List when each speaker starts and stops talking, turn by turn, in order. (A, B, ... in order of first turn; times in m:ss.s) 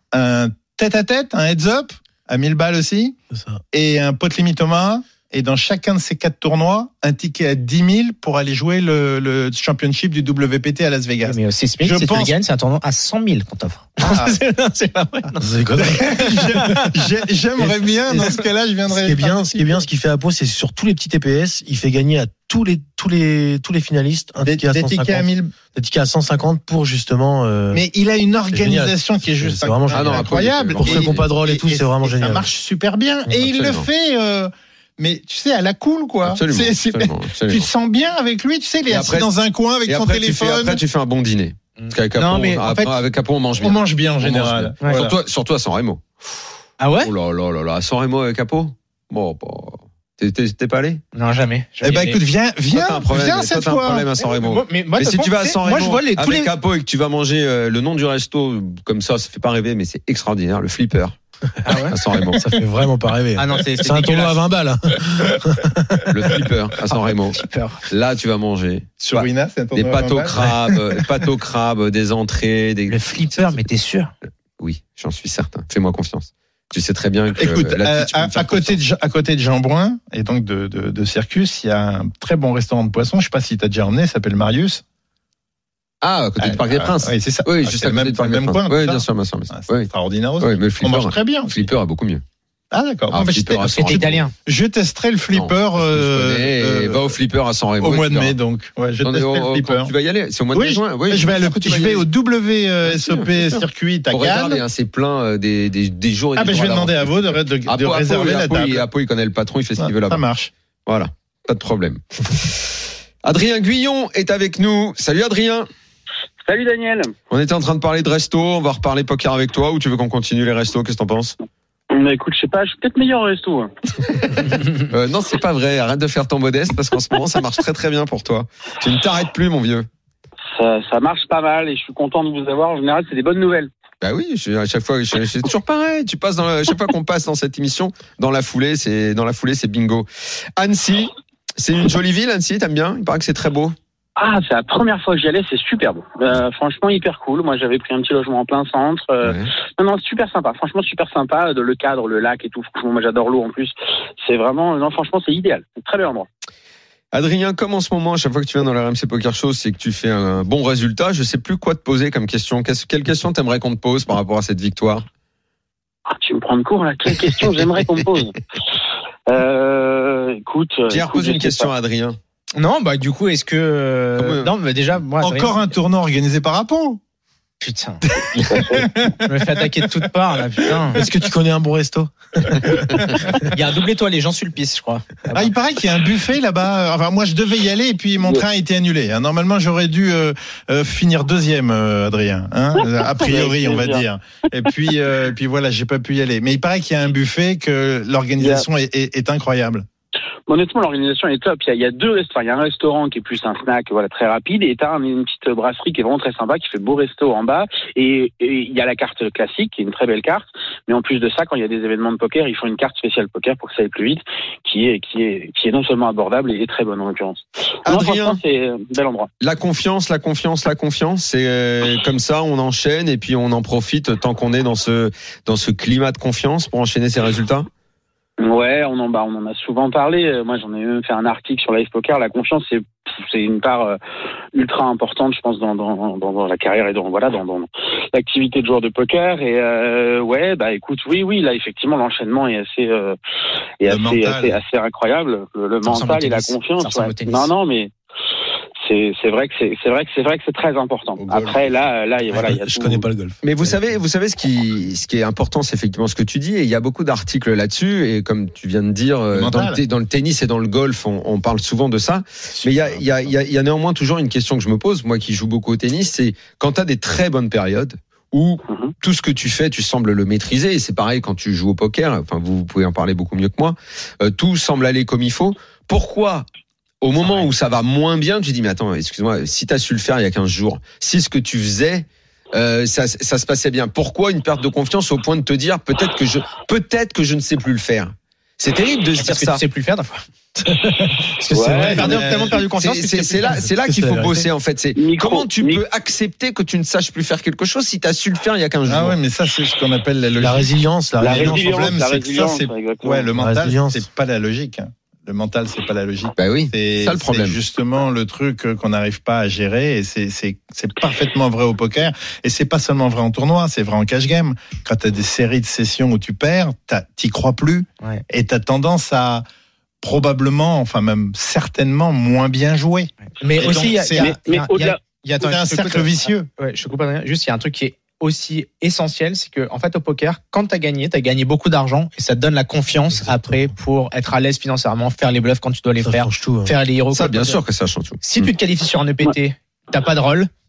0:00.1-0:03.2 A
0:03.3-0:03.6 B
0:03.7-0:12.3 A
0:11.2-0:16.9 C
0:14.0-0:14.4 A
0:15.4-0:16.6 B
0:15.9-0:19.8 A
0:17.6-0:27.8 B
0:24.4-0:25.5 A
0:27.7-0:40.8 A
0:28.5-0:32.5 B
0:29.9-0:31.3 D
0:33.4-0:33.8 D
0:36.2-0:37.7 D
0:38.9-0:39.3 D
0:39.8-0:46.3 D
0:41.8-0:43.0 C
0:43.6-0:45.2 A
0:46.8-0:47.1 C
0:47.0-0:51.0 D
0:51.1-0:52.2 C
0:51.8-0:54.1 A
0:52.7-1:01.2 D
0:54.2-0:56.5 C
1:01.6-1:02.0 C
1:01.9-1:02.4 D
1:02.3-1:06.3 B
1:03.4-1:04.4 C
1:06.1-1:13.6 D
1:07.3-1:07.8 C
1:09.0-1:11.2 A
1:12.9-1:14.1 C
1:14.6-1:18.8 D
1:17.4-1:24.8 A
1:26.0-1:32.2 D
1:26.4-1:31.7 A
1:32.7-1:37.2 A
1:33.1-1:34.2 D
1:33.1-1:34.3 C
1:35.3-1:38.3 D
1:37.8-1:39.9 A
1:39.0-1:42.0 D
1:40.5-1:44.6 A
1:42.8-1:50.2 D
1:46.4-1:48.8 A
1:49.8-1:50.5 A
1:50.8-1:55.7 D
1:56.4-1:57.1 E
1:57.3-2:01.4 D
2:01.9-2:03.7 E
2:04.9-2:09.9 D
2:10.5-2:13.7 E
2:14.0-2:23.8 D
2:24.2-2:36.3 E
2:29.2-2:29.5 D
2:37.1-2:45.0 D
2:46.1-2:48.4 E
2:49.3-2:51.7 E
2:50.9-2:52.2 D
2:52.6-2:55.5 C
2:54.2-2:54.5 D
2:55.2-2:57.0 A
2:57.6-2:58.0 C
2:58.2-2:59.5 A
2:58.4-2:58.9 E
2:59.2-3:01.0 C
3:00.9-3:02.8 B
3:03.5-3:05.5 C
3:05.3-3:19.8 A
3:13.1-3:14.0 E
3:18.4-3:18.6 E
3:20.5-3:39.3 E
3:37.8-3:38.4 D
3:39.4-3:47.7 D
3:48.4-3:54.0 E
3:54.5-4:03.2 E
4:03.8-4:07.9 E
4:03.8-4:04.6 A
4:05.8-4:07.5 C
4:08.8-4:13.1 E
4:11.2-4:11.8 A
4:12.3-4:14.0 B
4:13.4-4:36.4 D
4:19.3-4:19.8 A
4:37.0-4:49.6 D
4:49.2-4:50.2 C
4:50.6-4:52.3 B
4:51.5-4:52.1 E
4:51.7-4:53.6 C
4:52.0-4:59.2 D
4:52.1-4:52.4 A
4:53.5-4:54.5 B
4:55.0-4:55.8 E
4:58.9-5:19.4 A
5:00.4-5:02.0 B
5:01.2-5:03.3 E
5:03.3-5:04.0 B
5:06.4-5:07.6 D
5:20.0-5:24.4 A
5:23.4-5:37.6 C
5:23.6-5:25.0 E
5:25.4-5:26.5 A
5:33.1-5:33.7 B
5:36.0-5:36.7 B
5:37.1-5:38.5 D
5:38.2-5:40.5 C